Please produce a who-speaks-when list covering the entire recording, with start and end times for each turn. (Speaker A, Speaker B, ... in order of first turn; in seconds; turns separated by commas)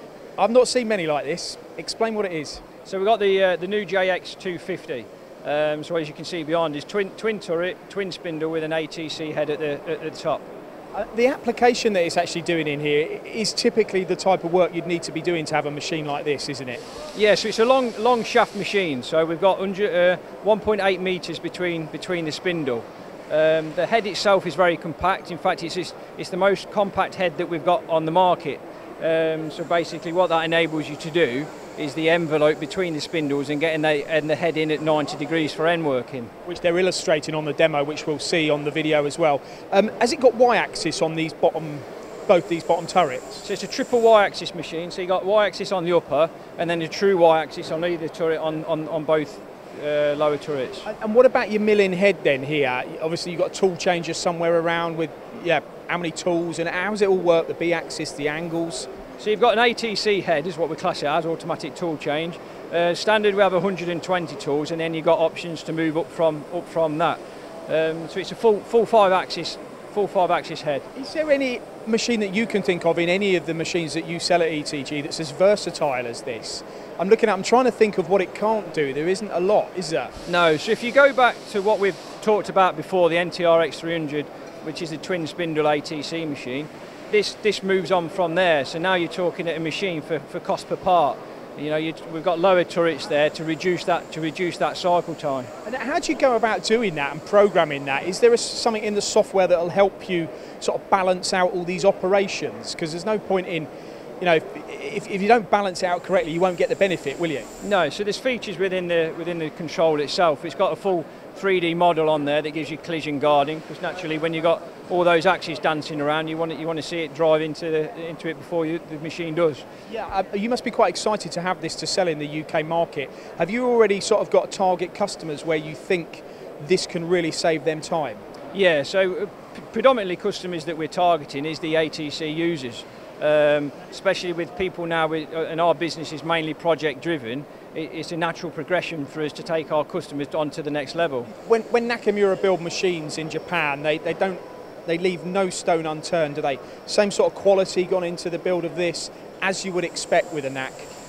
Speaker A: 0.4-2.6, Speaker B: 2.9-10.5, Speaker A: 10.9-16.8, Speaker B: 17.1-36.3, Speaker A: 36.5-43.5, Speaker B: 43.5-50.9, Speaker A: 50.9-58.9, Speaker B: 59.2-70.8, Speaker A: 71.0-80.1, Speaker B: 80.3-95.5, Speaker A: 95.7-103.7, Speaker A: 104.2-107.5, Speaker B: 107.6-119.6, Speaker A: 119.9-128.2, Speaker B: 128.5-141.3, Speaker A: 141.4-150.9